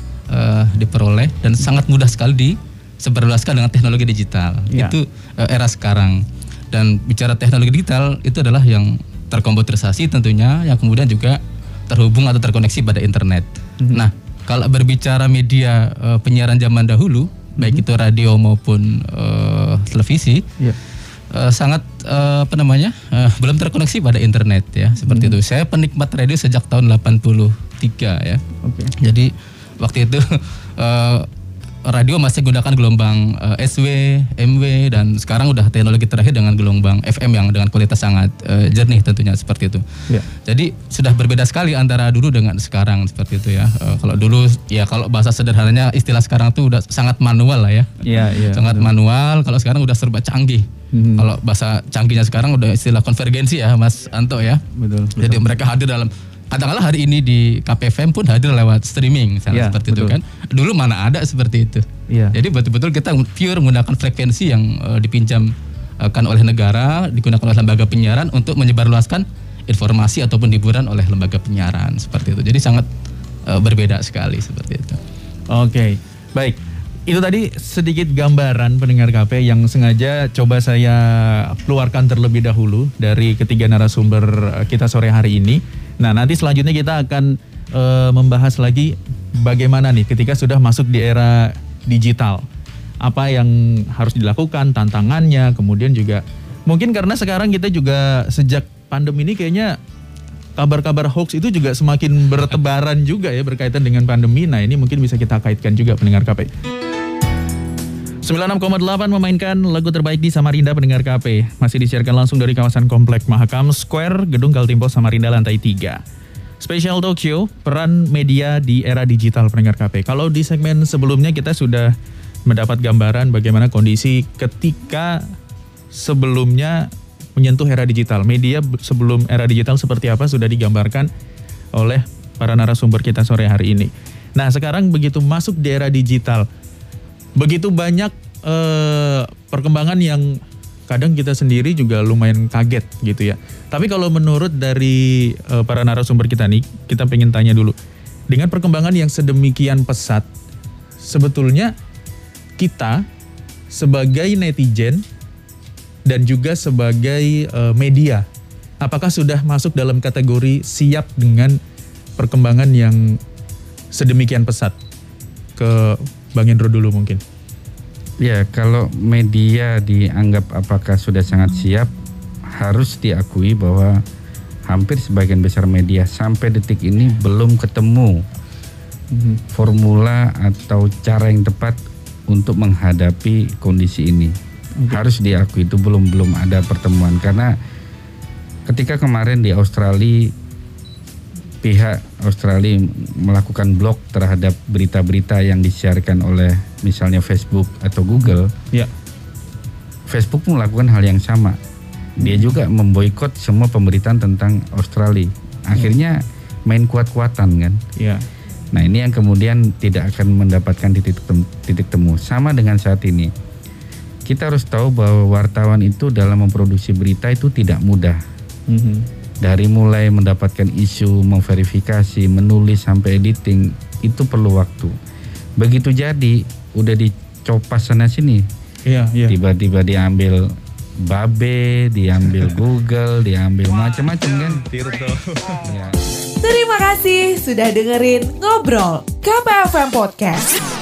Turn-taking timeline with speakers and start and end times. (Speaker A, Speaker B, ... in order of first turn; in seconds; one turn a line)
Speaker A: 0.3-6.2
Speaker B: 4.7-5.0
Speaker A: 6.7-20.4
Speaker B: 13.8-14.1
Speaker B: 17.6-17.9
Speaker A: 21.3-28.4
Speaker B: 25.1-25.4
Speaker B: 28.6-28.9
Speaker A: 29.0-31.3
Speaker A: 31.9-54.6
Speaker B: 48.0-48.9
Speaker B: 50.9-51.3
Speaker B: 54.7-55.4
Speaker A: 55.1-65.5
Speaker B: 59.5-60.2
Speaker B: 62.1-62.4
Speaker A: 66.0-72.9
Speaker A: 73.5-75.0
Speaker B: 75.5-92.5
Speaker B: 93.0-99.8
Speaker B: 100.6-106.5
Speaker B: 108.2-116.0
Speaker B: 116.6-121.9
Speaker B: 122.5-125.2
Speaker B: 125.9-131.1
Speaker B: 131.7-136.5
Speaker B: 137.4-140.3
Speaker B: 140.9-147.8
Speaker B: 148.3-150.3
Speaker B: 151.0-151.7
Speaker B: 152.6-153.0
Speaker B: 153.7-155.0
Speaker B: 156.1-158.3
Speaker B: 158.8-161.6
Speaker B: 162.2-163.2
Speaker B: 163.9-164.8
Speaker B: 165.6-167.2
Speaker C: 168.2-171.9
Speaker C: 172.6-174.0
Speaker C: 174.7-178.2
Speaker B: 179.1-179.4
Speaker C: 179.5-181.8
Speaker C: 182.3-184.3
Speaker C: 184.9-187.5
Speaker C: 188.7-190.3
Speaker C: 191.6-198.5
Speaker B: 198.2-198.9
Speaker C: 200.1-201.6
Speaker C: 202.2-207.8
Speaker B: 202.2-202.6
Speaker B: 208.0-208.3
Speaker C: 208.7-213.3
Speaker C: 214.3-218.2
Speaker B: 218.7-219.1
Speaker C: 219.4-224.9
Speaker C: 225.6-228.4
Speaker B: 228.9-229.3
Speaker C: 229.3-230.4
Speaker C: 231.0-234.7
Speaker B: 234.3-235.7
Speaker C: 235.6-236.0
Speaker D: 236.4-240.6